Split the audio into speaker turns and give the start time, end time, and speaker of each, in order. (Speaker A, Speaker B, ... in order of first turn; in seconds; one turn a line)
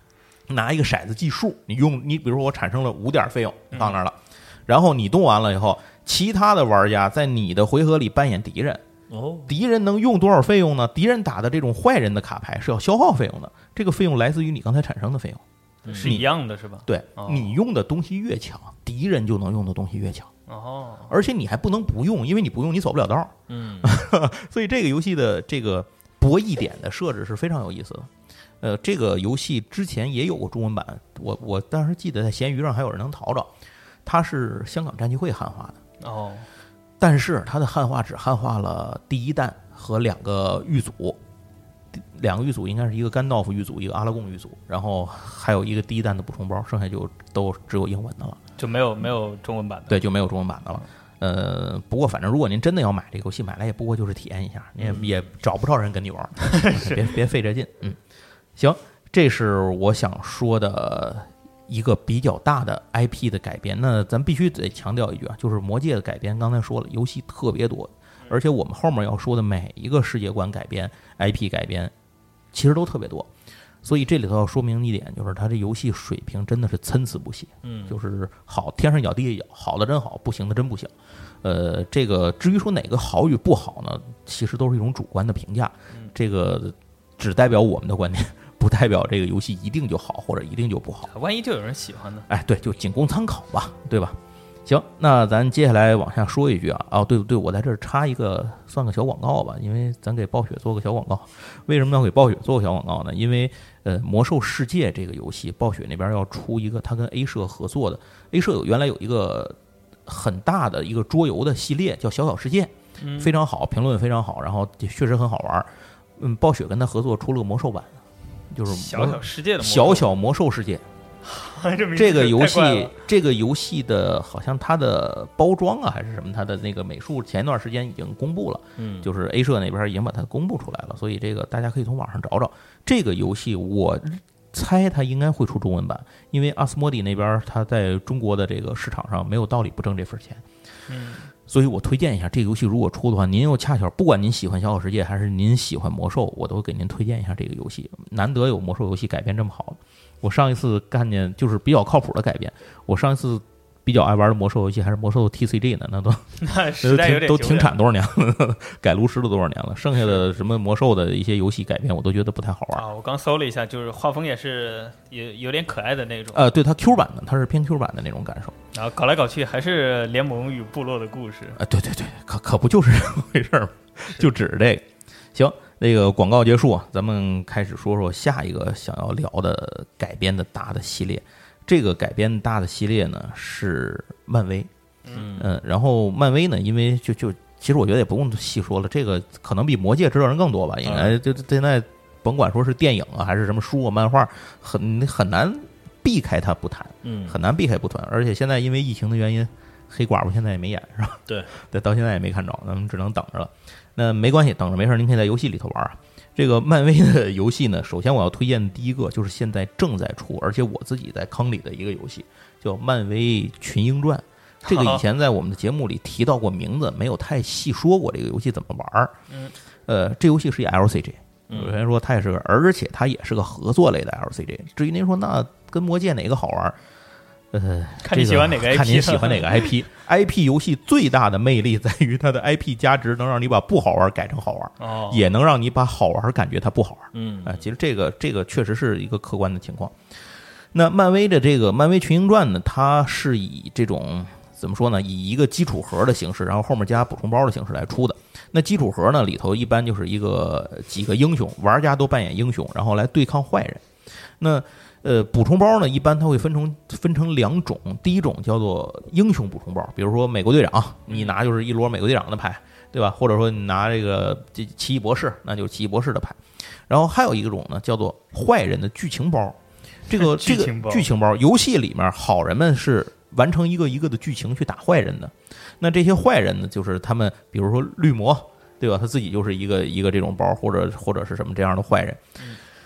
Speaker A: 0.5-8.8
Speaker B: 3.7-4.0
Speaker C: 9.1-9.5
Speaker A: 9.5-15.4
Speaker C: 15.8-16.2
Speaker B: 15.8-17.5
Speaker A: 16.0-16.3
Speaker A: 16.9-20.3
Speaker B: 20.5-21.1
Speaker A: 21.1-28.1
Speaker C: 23.5-23.9
Speaker A: 28.6-33.5
Speaker A: 34.0-35.8
Speaker B: 36.0-36.5
Speaker A: 37.0-41.2
Speaker A: 41.9-48.4
Speaker B: 48.6-50.0
Speaker A: 49.9-58.0
Speaker B: 56.4-57.1
Speaker A: 58.5-71.9
Speaker A: 72.5-73.3
Speaker A: 73.8-91.1
Speaker C: 77.6-78.0
Speaker B: 91.1-92.3
Speaker A: 92.3-118.0
Speaker B: 113.0-113.4
Speaker A: 118.5-120.8
Speaker B: 118.7-120.1
Speaker B: 121.2-123.0
Speaker A: 122.0-140.4
Speaker C: 128.8-129.1
Speaker B: 140.9-141.3
Speaker A: 141.5-162.8
Speaker B: 156.4-157.7
Speaker B: 162.7-166.4
Speaker A: 166.3-168.6
Speaker B: 168.7-171.6
Speaker A: 171.6-184.7
Speaker C: 185.1-185.5
Speaker A: 185.3-219.1
Speaker C: 190.8-191.2
Speaker C: 197.0-197.4
Speaker B: 214.6-215.0
Speaker B: 219.3-219.5
Speaker A: 219.9-226.8
Speaker C: 221.5-221.7
Speaker A: 227.5-239.9
Speaker B: 228.0-229.7
Speaker B: 234.8-235.2
Speaker C: 237.1-237.6
Speaker A: 240.7-253.8
Speaker A: 254.4-269.6
Speaker A: 270.1-282.2
Speaker B: 270.1-271.1